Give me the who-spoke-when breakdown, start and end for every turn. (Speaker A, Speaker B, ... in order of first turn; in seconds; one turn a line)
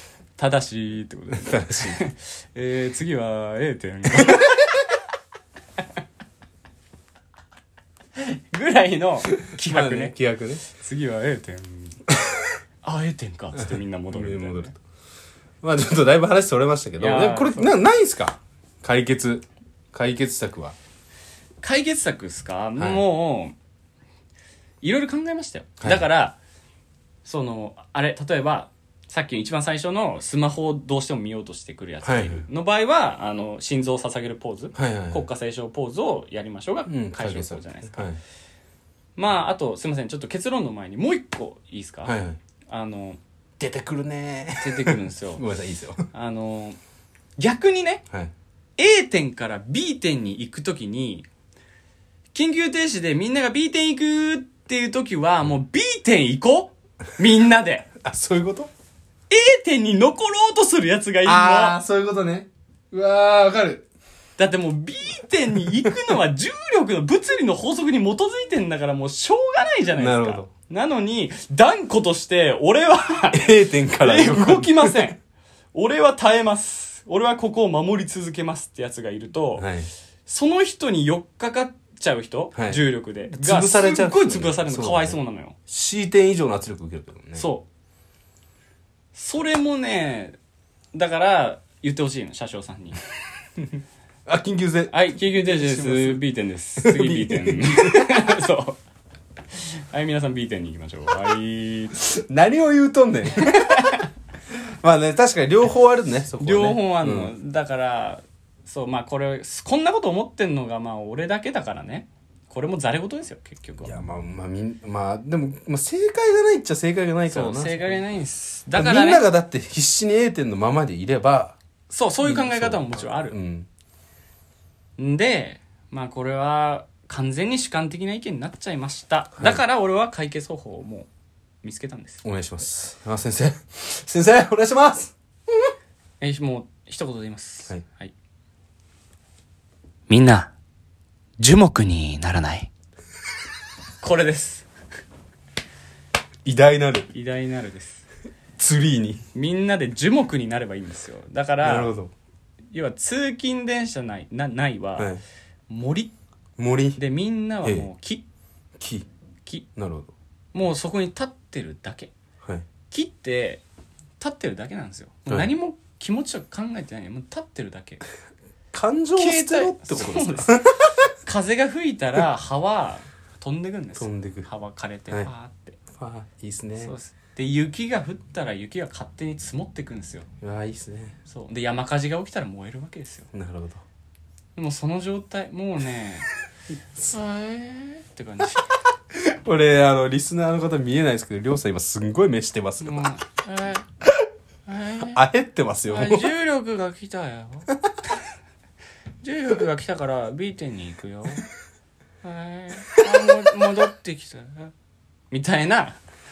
Speaker A: 0.4-4.6
Speaker B: 1.3-2.0
Speaker B: 4.1-4.6
Speaker A: 8.2-10.1
Speaker B: 9.4-10.6
Speaker A: 10.7-12.0
Speaker B: 12.1-12.5
Speaker A: 12.8-14.7
Speaker B: 13.6-14.8
Speaker B: 15.6-20.8
Speaker A: 17.0-17.7
Speaker A: 21.6-23.5
Speaker B: 22.8-23.0
Speaker A: 24.8-26.4
Speaker B: 25.8-26.1
Speaker A: 27.2-38.1
Speaker B: 32.0-32.5
Speaker B: 34.7-35.3
Speaker B: 36.9-38.2
Speaker A: 39.2-42.1
Speaker B: 42.0-42.4
Speaker A: 42.7-43.2
Speaker B: 43.6-46.0
Speaker A: 44.6-45.4
Speaker A: 46.1-46.8
Speaker A: 47.4-48.0
Speaker A: 48.8-51.2
Speaker A: 52.3-57.9
Speaker B: 58.0-58.7
Speaker A: 59.3-61.8
Speaker B: 61.2-63.9
Speaker A: 64.4-75.2
Speaker B: 70.0-70.5
Speaker B: 73.3-75.1
Speaker A: 75.7-79.7
Speaker B: 79.6-79.9
Speaker A: 80.2-85.5
Speaker B: 82.5-87.5
Speaker A: 87.3-87.7
Speaker A: 89.1-90.4
Speaker A: 90.9-93.0
Speaker B: 94.2-96.2
Speaker A: 94.9-98.8
Speaker B: 96.8-98.3
Speaker A: 99.5-102.0
Speaker B: 102.0-104.1
Speaker A: 103.6-104.0
Speaker B: 104.8-107.3
Speaker A: 106.4-114.0
Speaker B: 113.8-118.0
Speaker A: 117.3-119.3
Speaker B: 118.7-121.6
Speaker A: 121.9-123.3
Speaker B: 122.2-123.7
Speaker A: 125.0-131.1
Speaker B: 129.4-129.6
Speaker A: 131.6-132.2
Speaker B: 132.2-135.1
Speaker A: 136.2-138.1
Speaker A: 140.1-140.5
Speaker A: 141.4-142.7
Speaker A: 144.0-144.7
Speaker B: 146.4-147.1
Speaker A: 147.1-148.0
Speaker B: 148.6-149.2
Speaker A: 149.3-151.9
Speaker B: 151.6-152.1
Speaker A: 152.7-155.1
Speaker B: 155.0-155.2
Speaker A: 155.7-156.1
Speaker B: 156.6-157.0
Speaker A: 156.9-158.2
Speaker B: 158.8-159.1
Speaker B: 159.8-160.1
Speaker A: 160.5-162.1
Speaker A: 162.9-163.6
Speaker A: 164.2-168.0
Speaker B: 168.7-171.1
Speaker A: 169.2-170.7
Speaker A: 171.2-175.8
Speaker B: 173.9-174.5
Speaker B: 175.9-176.9
Speaker A: 176.8-180.2
Speaker B: 180.4-181.1
Speaker A: 181.3-183.3
Speaker B: 183.3-183.8
Speaker A: 184.6-186.3
Speaker A: 187.0-188.7
Speaker B: 189.1-193.1
Speaker A: 192.8-193.9
Speaker A: 194.7-195.2
Speaker B: 195.0-196.3
Speaker A: 195.9-197.7
Speaker A: 199.2-201.4
Speaker A: 202.2-204.7
Speaker A: 205.3-206.0